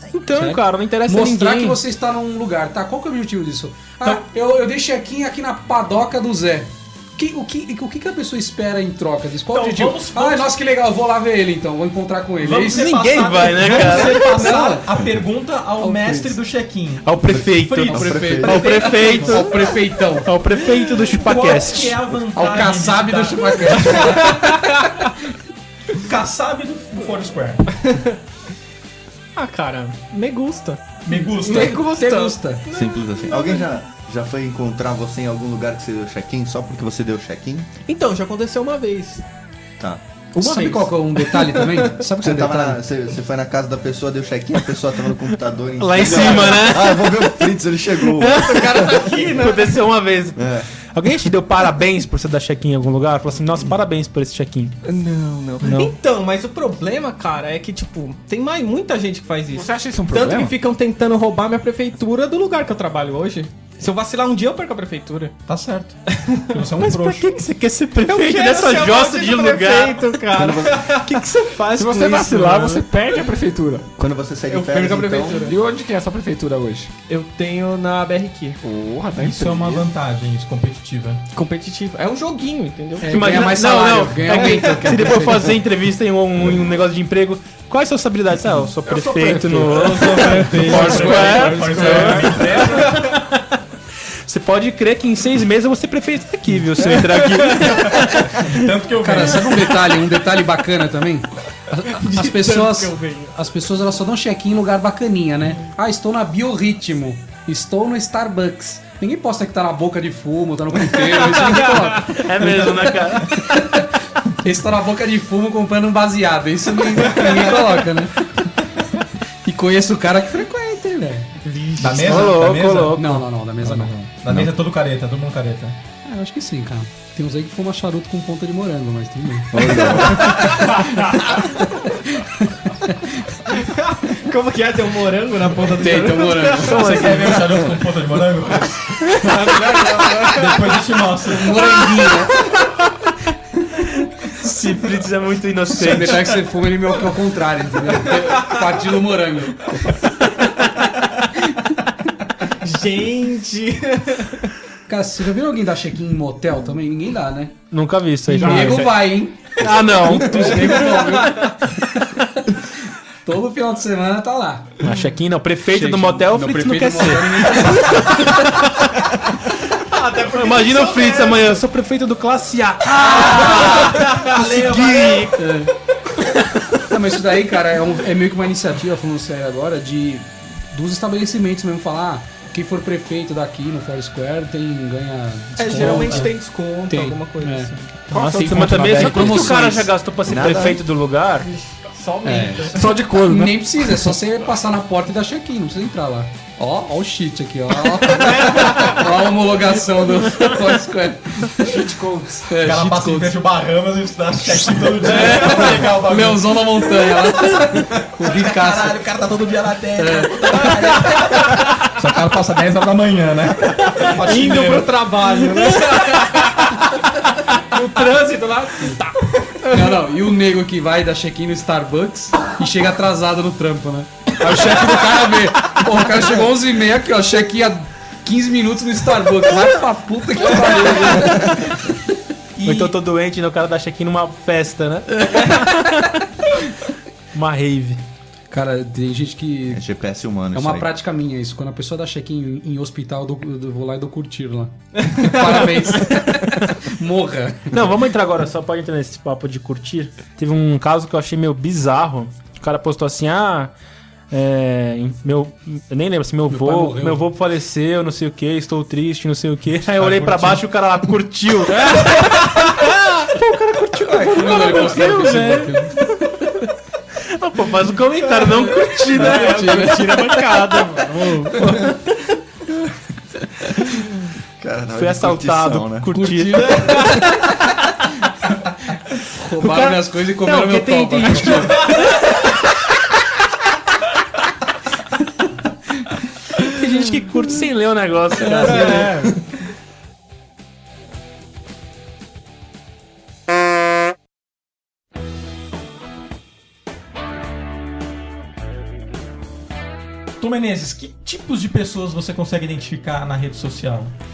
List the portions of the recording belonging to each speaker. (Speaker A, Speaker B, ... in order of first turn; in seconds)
Speaker A: 0.1-1.8, 12.7-14.4, 17.1-22.0, 45.8-47.3, 48.2-54.7, 55.6-56.0, 66.8-70.2, 83.0-93.4, 94.3-98.6, 111.6-113.4, 121.8-123.3, 136.6-137.7, 144.0-146.5, 157.7-161.2, 164.8-169.1, 170.2-175.2, 188.1-191.5, 215.8-216.5, 232.6-236.2, 237.3-238.0, 247.7-253.7, 254.3-265.8, 267.2-272.0, 274.9-277.3, 279.6-282.2, 286.6-289.3
Speaker B: 0.3-12.9, 13.6-14.9, 15.8-16.4, 17.8-20.4, 22.3-24.9, 31.4-32.6, 40.4-42.8, 83.0-85.6, 91.7-92.1, 99.0-118.5, 119.5-121.3, 123.0-124.0, 126.0-133.4, 135.6-137.1, 141.3-142.5, 145.7-150.7, 154.9-157.6, 158.3-162.6, 163.2-165.0, 165.7-168.5, 175.4-175.7, 176.8-187.7, 188.4-189.9, 192.2-201.9, 202.5-203.4, 205.0-209.0, 210.0-211.1, 219.7-232.0, 235.2-235.9, 238.5-239.8, 240.5-247.9, 256.5-257.3, 264.0-266.1, 268.7-270.4, 271.6-271.8, 276.1-277.5, 279.2-282.2, 288.5-289.3
Speaker C: 9.5-10.6, 12.4-19.4, 21.1-24.3, 26.0-27.7, 31.1-31.9, 65.5-66.0, 66.5-67.4, 79.2-81.2, 90.0-93.1, 97.8-99.8, 121.8-123.1, 123.6-125.8, 136.8-138.9, 140.3-141.6, 173.0-175.4, 185.8-186.2, 202.6-206.9, 208.0-215.1, 232.6-233.0, 259.9-260.6, 300.4-304.1
Speaker D: 17.3-19.1, 32.7-37.7, 42.2-48.8, 50.4-50.7, 70.3-71.0, 74.0-75.5, 129.5-130.6, 190.2-190.8, 239.7-240.9, 274.6-276.1
Speaker E: 24.1-24.7, 27.7-28.2, 29.4-33.7, 37.9-39.2, 40.4-42.0, 46.1-46.5, 48.2-49.8, 54.8-65.4, 66.1-66.7, 67.9-72.9, 74.5-75.6, 77.1-78.6, 81.3-83.6, 84.3-85.0, 89.6-93.2, 96.9-98.1, 101.9-103.4, 121.4-122.3, 133.5-137.0, 139.0-140.8, 148.1-148.6, 152.6-154.5, 160.3-161.5, 169.9-171.6, 173.2-174.3, 185.6-187.9, 191.5-192.9, 198.4-199.0, 214.0-216.8, 217.7-220.1, 245.1-245.7, 261.7-262.4, 269.1-271.9, 276.5-277.1, 288.6-289.4
Speaker F: 59.5-60.5, 71.8-73.9, 75.4-76.9, 78.6-79.9, 89.2-89.6, 90.8-91.2, 158.3-158.9, 188.1-189.8, 192.7-194.1, 201.7-202.5